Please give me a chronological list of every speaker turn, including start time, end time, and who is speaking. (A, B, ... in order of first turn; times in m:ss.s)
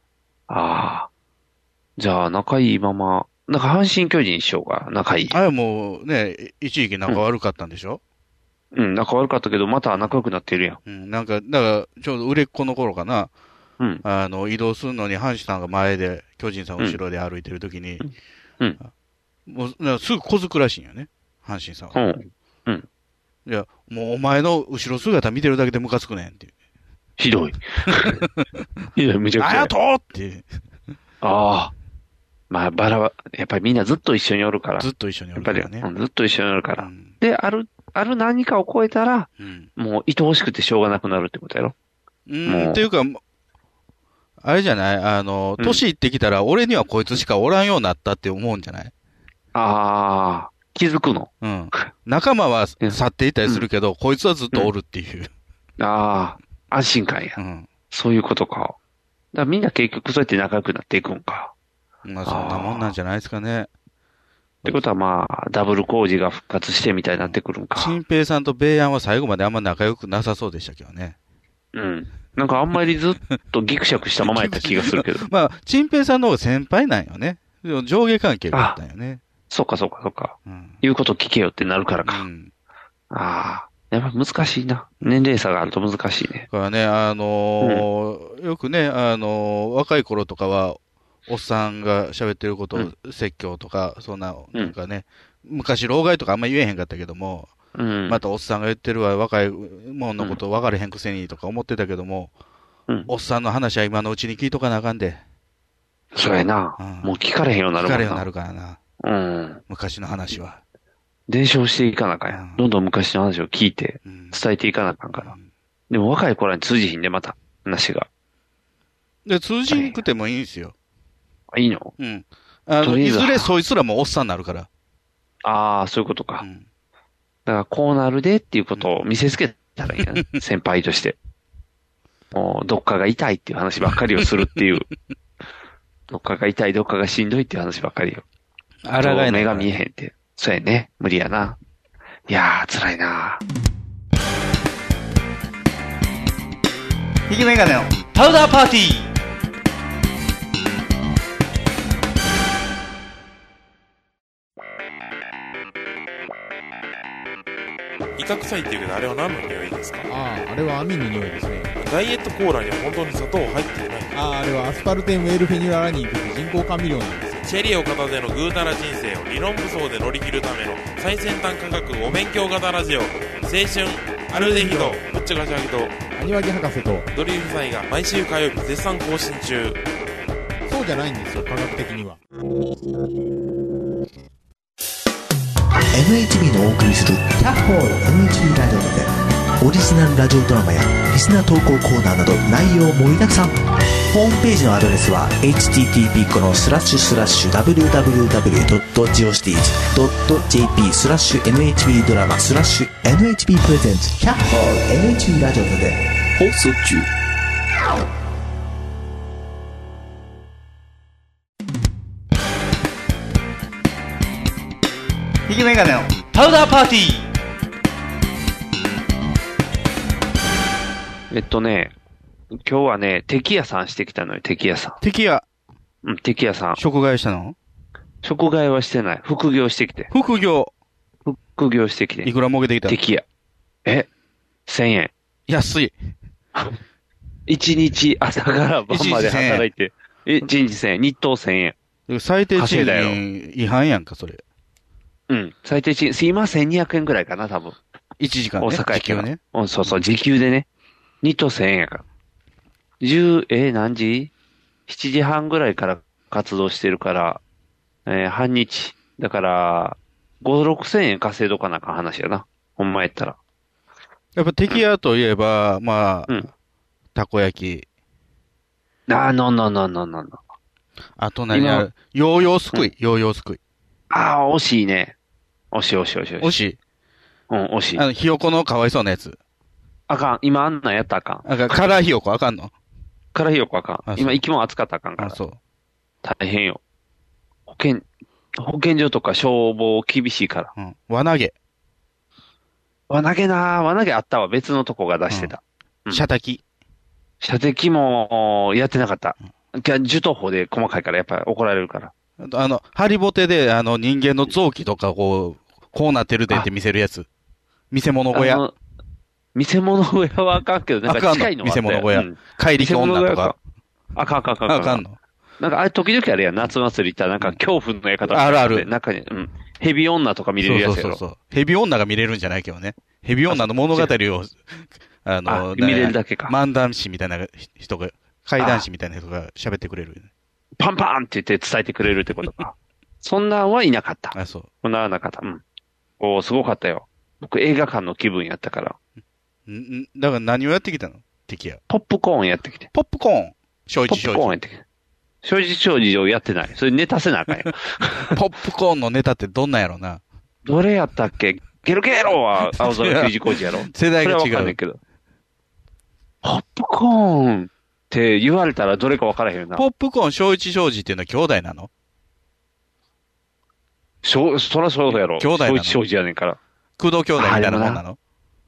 0:00.5-0:01.1 A
0:02.0-0:05.4 A
0:05.3-0:08.0 B
0:08.7-0:10.8 A
0:10.8-0:13.3 B
0:14.0-0:18.0 B
0:18.0-0:18.8 A
0:19.4-0:22.0 B
0:21.9-0:22.9 A
0:23.4-0:26.5 B
0:27.2-0:28.2 A
0:29.0-0:29.7 A
0:29.4-0:30.5 B
0:31.2-0:31.7 A
0:32.5-0:41.7 A
0:34.8-0:35.9 B
0:36.8-0:37.1 B
0:39.4-0:39.7 B
0:42.3-0:43.2 B
0:42.5-0:42.8 A
0:44.4-0:48.9 B
0:49.5-0:51.3 A
0:51.4-0:55.3 B
0:52.8-0:53.7 A
0:55.8-0:57.4 A
0:57.4-0:57.7 B
0:57.9-0:58.8 A
0:59.3-1:01.5 A
1:02.0-1:03.7 B
1:02.3-1:02.9 A
1:04.6-1:08.0 A
1:07.2-1:11.2 B
1:11.7-1:15.3 A
1:14.2-1:19.2 B
1:18.5-1:18.8 A
1:19.5-1:22.2 A
1:20.4-1:20.8 B
1:22.0-1:22.5 B
1:23.1-1:26.5 A
1:26.5-1:37.5 B
1:37.8-1:38.2 A
1:38.1-1:42.3 B
1:43.1-1:45.2 B
1:46.1-1:48.3 A
1:46.8-1:47.1 B
1:47.8-1:48.8 B
1:49.0-1:49.6 A
1:49.7-1:50.6 B
1:51.3-1:55.4 A
1:52.3-1:52.6 B
1:54.0-1:54.4 B
1:55.1-1:55.4 B
1:55.9-1:58.1 A
1:59.3-2:00.7 B
1:59.7-2:00.0 A
2:01.5-2:01.9 A
2:02.0-2:04.7 B
2:02.8-2:03.5 A
2:05.4-2:06.4 A
2:07.4-2:11.2 A
2:12.3-2:14.9 A
2:16.1-2:18.2 A
2:18.8-2:19.7 B
2:19.0-2:21.6 A
2:22.3-2:23.4 A
2:27.3-2:29.1 B
2:38.2-2:40.1 C
2:40.1-2:41.7 D
2:41.8-2:44.2 C
2:44.1-2:47.5 D
2:47.4-2:56.0 C
2:54.3-2:55.0 D
2:56.2-2:57.1 D
2:57.1-2:59.8 C
3:00.7-3:02.2 D
3:05.9-3:13.6 E
3:14.1-3:26.0 E
3:35.5-3:37.3 B
3:41.3-3:41.9 A
3:42.5-3:45.0 A
3:45.0-3:45.4 B
3:46.0-3:46.8 A
3:46.8-3:47.6 B
3:48.2-3:50.1 A
3:50.1-3:50.7 B
3:51.2-3:52.3 A
3:52.2-3:53.0 B
3:52.8-3:53.2 A
3:54.7-3:55.1 A
3:55.5-3:55.9 B
3:57.5-4:01.8 A
3:58.9-3:59.6 B
4:02.1-4:04.4 B
4:02.6-4:03.2 A
4:05.3-4:07.8 A
4:08.2-4:10.0 B
4:08.6-4:10.7 A
4:11.2-4:12.0 A
4:13.0-4:14.3 A
4:14.9-4:17.4 A
4:18.1-4:23.4 A
4:24.4-4:26.4 B
4:27.1-4:27.9 B
4:29.1-4:30.4 A
4:31.2-4:33.6 B
4:31.5-4:31.9 A
4:34.1-4:35.1 A
4:35.7-4:36.6 A
4:36.4-4:36.8 B
4:37.5-4:38.0 A
4:38.0-4:39.4 B
4:40.1-4:41.9 A
4:41.4-4:42.7 B
4:43.3-4:45.4 A
4:44.1-4:44.4 B
4:45.2-4:45.6 B
4:46.2-4:46.8 A
4:47.7-4:50.7 A
4:50.8-4:51.5 B
4:53.1-4:56.3 A
4:56.1-4:56.6 B
4:57.4-5:02.1 A
5:02.4-5:07.3 B
5:07.9-5:08.6 B
5:08.3-5:08.8 A
5:09.6-5:13.6 A
5:11.1-5:13.6 B
5:14.1-5:15.0 A
5:14.7-5:15.2 B
5:15.6-5:21.2 A
5:18.2-5:18.9 B
5:20.6-5:30.3 B
5:23.5-5:24.1 A
5:25.5-5:26.6 A
5:28.6-5:28.9 A
5:30.8-5:35.6 A
5:34.3-5:34.7 B
5:36.2-5:39.0 A
5:39.7-5:41.8 B
5:41.9-5:42.9 A
5:42.9-5:44.6 B
5:44.1-5:44.8 A
5:45.4-5:48.4 A
5:48.3-5:50.2 B
5:50.6-5:55.0 A
5:52.7-5:54.8 B
5:56.4-5:59.8 A
5:59.8-6:01.9 B
6:04.2-6:06.6 A
6:05.1-6:06.0 B
6:07.0-6:08.2 B
6:07.4-6:08.0 A